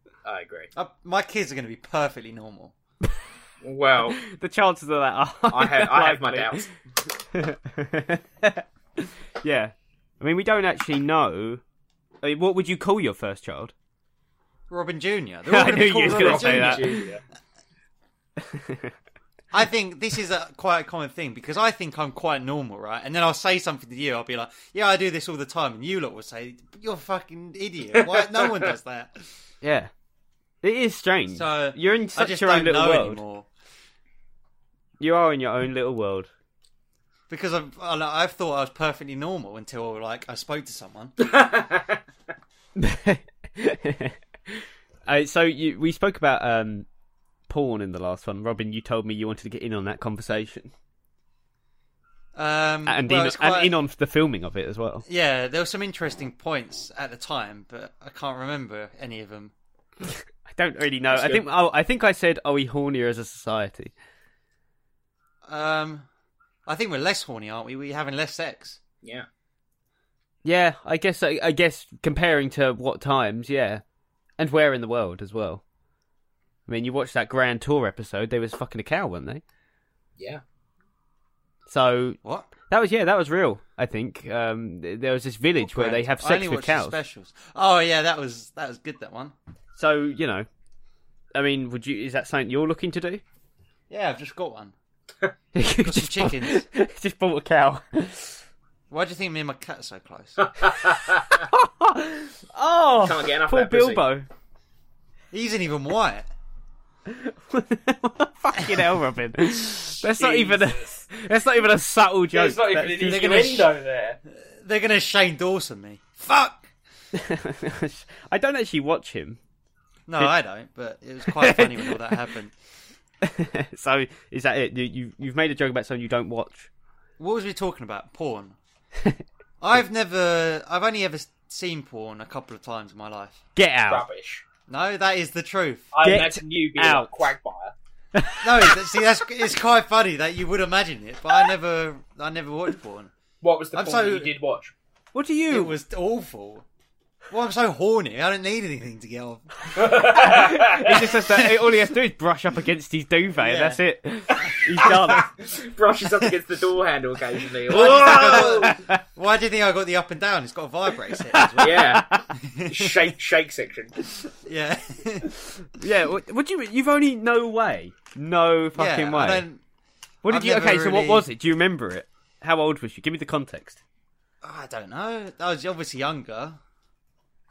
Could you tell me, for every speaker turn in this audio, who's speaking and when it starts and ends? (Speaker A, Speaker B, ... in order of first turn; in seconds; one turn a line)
Speaker A: 0.2-0.7
Speaker B: 0.8-2.7
Speaker A: 3.6-4.2
Speaker C: 4.2-6.6
Speaker A: 5.5-6.7
Speaker C: 7.3-11.6
Speaker C: 12.2-13.7
Speaker B: 14.7-17.0
Speaker C: 15.5-17.1
Speaker A: 15.9-17.2
Speaker C: 18.4-18.9
Speaker B: 19.5-29.3
Speaker A: 27.9-28.7
Speaker C: 29.6-29.9
Speaker C: 30.6-33.2
Speaker B: 31.3-33.5
Speaker C: 35.0-36.3
Speaker B: 37.3-41.2
Speaker A: 41.2-42.0
Speaker C: 42.8-46.9
Speaker C: 47.5-50.7
Speaker B: 52.4-53.7
Speaker C: 52.9-55.0
Speaker B: 55.1-59.5
Speaker C: 60.2-63.9
Speaker B: 65.5-66.1
Speaker B: 66.7-68.8
Speaker C: 70.4-73.8
Speaker C: 74.4-75.6
Speaker C: 76.7-79.4
Speaker C: 81.7-87.0
Speaker B: 82.2-82.5
Speaker B: 85.6-89.3
Speaker C: 89.8-90.5
Speaker C: 91.3-93.2
Speaker B: 93.9-94.8
Speaker C: 95.5-98.4
Speaker B: 95.8-96.6
Speaker B: 98.9-100.5
Speaker A: 100.4-101.4
Speaker C: 101.4-104.3
Speaker A: 103.0-104.1
Speaker B: 105.3-106.3
Speaker C: 107.1-113.5
Speaker B: 108.6-108.9
Speaker A: 110.0-111.0
Speaker A: 112.3-114.2
Speaker B: 113.0-113.7
Speaker B: 114.3-116.6
Speaker C: 117.1-119.4
Speaker B: 120.1-122.5
Speaker C: 121.3-122.2
Speaker C: 123.2-126.7
Speaker B: 127.2-128.6
Speaker B: 129.6-133.4
Speaker C: 133.6-134.1
Speaker A: 133.9-134.4
Speaker B: 134.7-135.9
Speaker A: 135.9-137.8
Speaker C: 136.0-137.2
Speaker C: 138.1-138.9
Speaker B: 138.4-143.1
Speaker A: 143.4-144.7
Speaker B: 143.7-144.3
Speaker C: 145.1-145.7
Speaker B: 145.5-146.6
Speaker B: 147.3-149.5
Speaker A: 149.8-151.1
Speaker C: 149.8-155.3
Speaker B: 153.4-153.8
Speaker B: 154.4-155.2
Speaker A: 154.8-158.8
Speaker B: 157.7-163.1
Speaker C: 157.8-159.0
Speaker C: 161.3-162.3
Speaker A: 161.6-162.1
Speaker A: 162.7-164.0
Speaker B: 164.2-165.3
Speaker C: 165.8-169.4
Speaker B: 168.8-169.6
Speaker C: 170.2-173.8
Speaker B: 170.3-171.3
Speaker B: 174.4-176.6